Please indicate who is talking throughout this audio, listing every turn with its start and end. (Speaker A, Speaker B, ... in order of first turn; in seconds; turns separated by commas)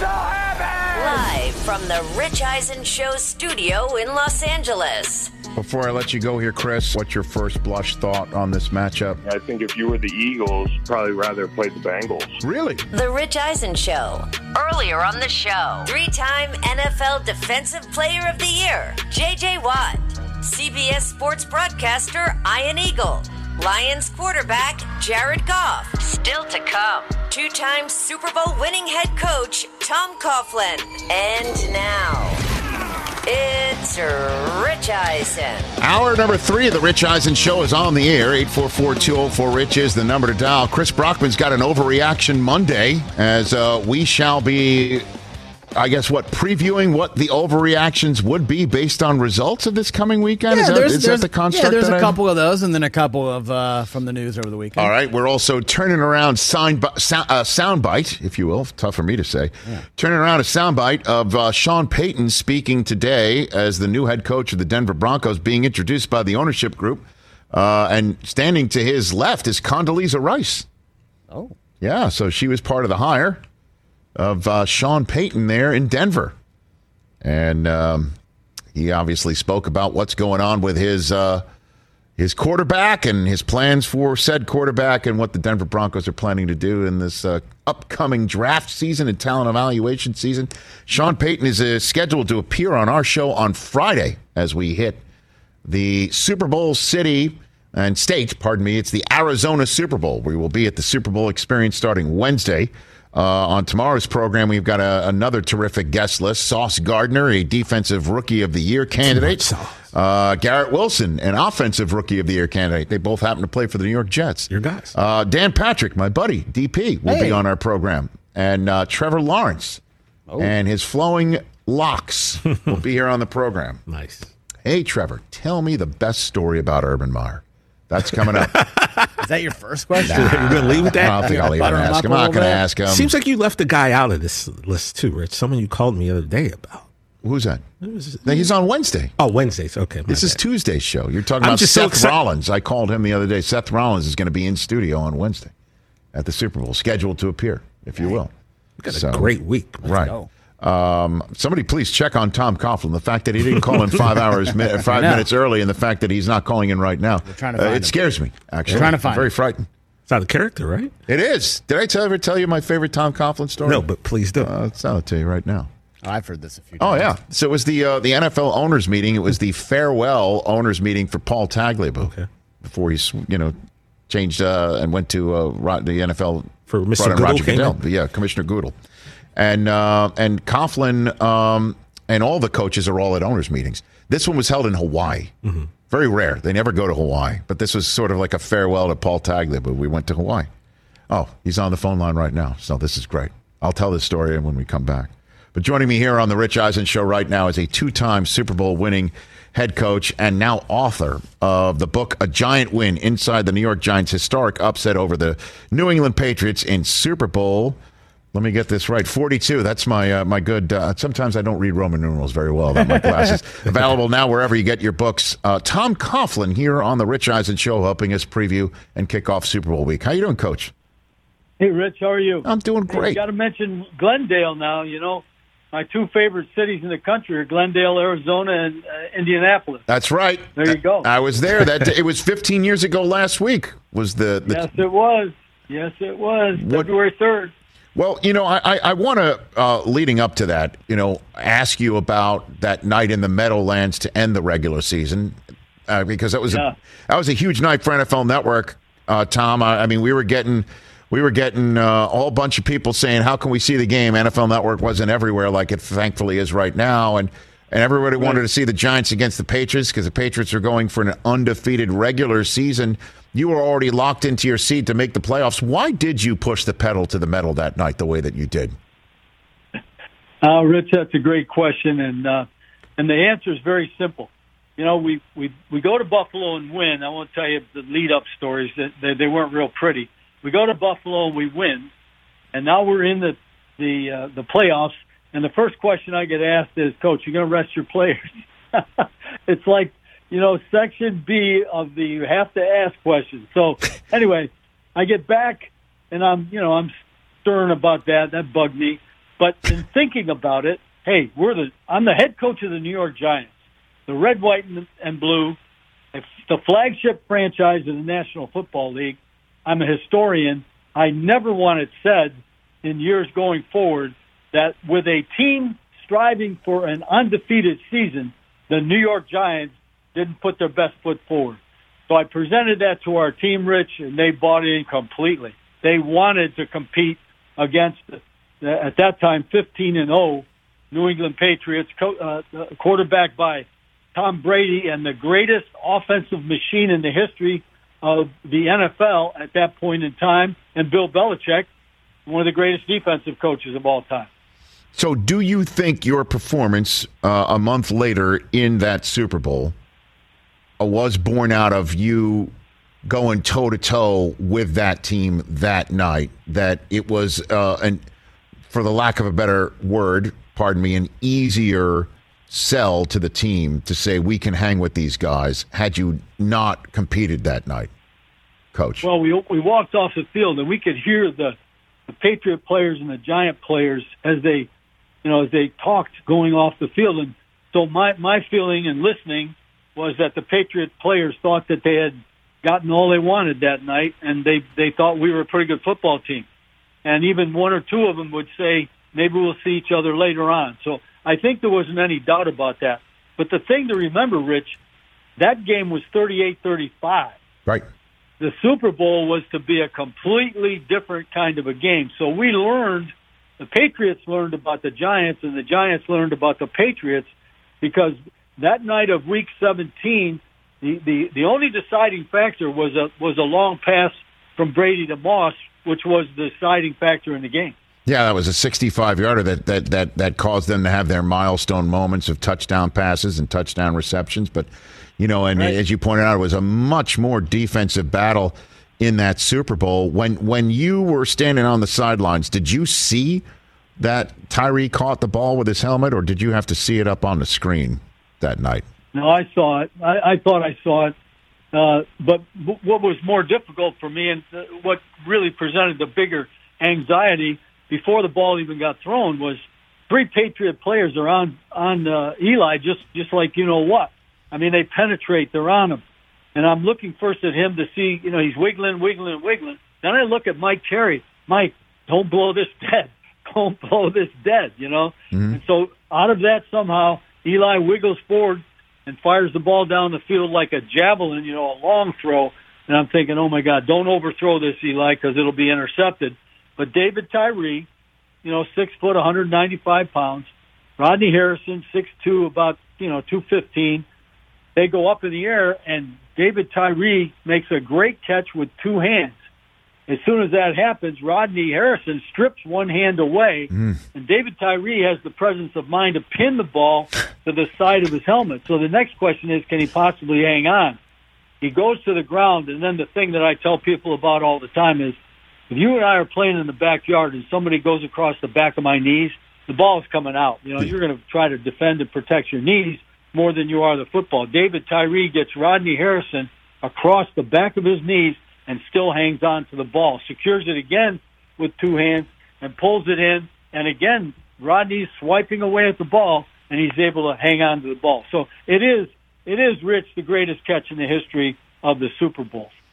Speaker A: 0.9-5.3, Speaker B: 5.5-9.2, Speaker C: 9.2-12.3, Speaker B: 12.4-12.9, Speaker A: 12.9-32.4, Speaker A: 33.3-35.7, Speaker B: 35.8-45.0, Speaker B: 45.8-52.2, Speaker D: 50.5-54.9, Speaker B: 54.8-70.7, Speaker D: 71.3-71.5, Speaker B: 71.8-73.4, Speaker B: 74.2-76.4, Speaker B: 77.2-78.2, Speaker B: 78.7-81.5, Speaker B: 82.2-95.0, Speaker B: 95.7-119.8, Speaker E: 109.1-109.8, Speaker E: 114.5-114.9, Speaker D: 117.1-117.4, Speaker B: 120.4-123.8, Speaker E: 123.9-124.3, Speaker B: 124.6-128.7, Speaker E: 128.5-129.1, Speaker D: 129.2-132.6, Speaker E: 130.0-131.8, Speaker B: 130.0-133.1, Speaker E: 132.9-136.9, Speaker B: 137.2-137.6, Speaker E: 137.8-138.5, Speaker B: 138.2-139.1, Speaker E: 139.2-140.4, Speaker B: 140.1-145.5, Speaker E: 141.4-142.2, Speaker B: 146.1-148.3, Speaker E: 148.8-149.8, Speaker B: 148.9-159.7, Speaker D: 149.8-150.3, Speaker D: 154.9-155.3, Speaker D: 157.3-158.0, Speaker E: 158.7-158.9, Speaker D: 158.7-159.3, Speaker E: 160.1-160.9, Speaker B: 161.1-165.7, Speaker E: 163.7-164.5, Speaker D: 166.0-167.1, Speaker B: 166.8-173.6, Speaker B: 174.1-178.8, Speaker E: 176.7-177.8, Speaker B: 179.4-185.3, Speaker B: 185.9-190.5, Speaker B: 191.1-207.8, Speaker B: 208.3-220.7, Speaker D: 212.8-213.4, Speaker F: 221.6-229.8, Speaker B: 222.4-223.2, Speaker B: 229.9-234.8, Speaker F: 230.6-231.1, Speaker F: 234.5-237.5, Speaker B: 236.5-236.9, Speaker B: 237.9-245.4, Speaker B: 245.9-268.7, Speaker F: 258.2-258.4, Speaker F: 270.4-272.5, Speaker F: 273.0-281.9, Speaker F: 282.5-296.9, Speaker F: 297.4-303.5, Speaker F: 304.1-305.6, Speaker F: 306.1-341.7, Speaker F: 342.3-344.3, Speaker B: 344.9-349.7, Speaker B: 350.8-352.5, Speaker B: 353.1-358.0, Speaker B: 358.7-367.9, Speaker B: 368.7-369.1, Speaker F: 369.0-371.6, Speaker F: 372.1-374.7, Speaker F: 375.2-386.5, Speaker F: 387.1-394.8, Speaker F: 395.4-397.4, Speaker F: 398.4-407.3, Speaker F: 407.8-417.8, Speaker B: 418.1-433.4, Speaker B: 434.0-438.9, Speaker F: 439.1-441.1, Speaker F: 441.7-456.0, Speaker F: 456.6-477.9, Speaker B: 465.3-465.6, Speaker F: 478.4-484.1, Speaker F: 484.8-489.3, Speaker F: 490.1-501.0, Speaker B: 493.7-494.0, Speaker F: 501.6-505.2, Speaker F: 505.7-532.7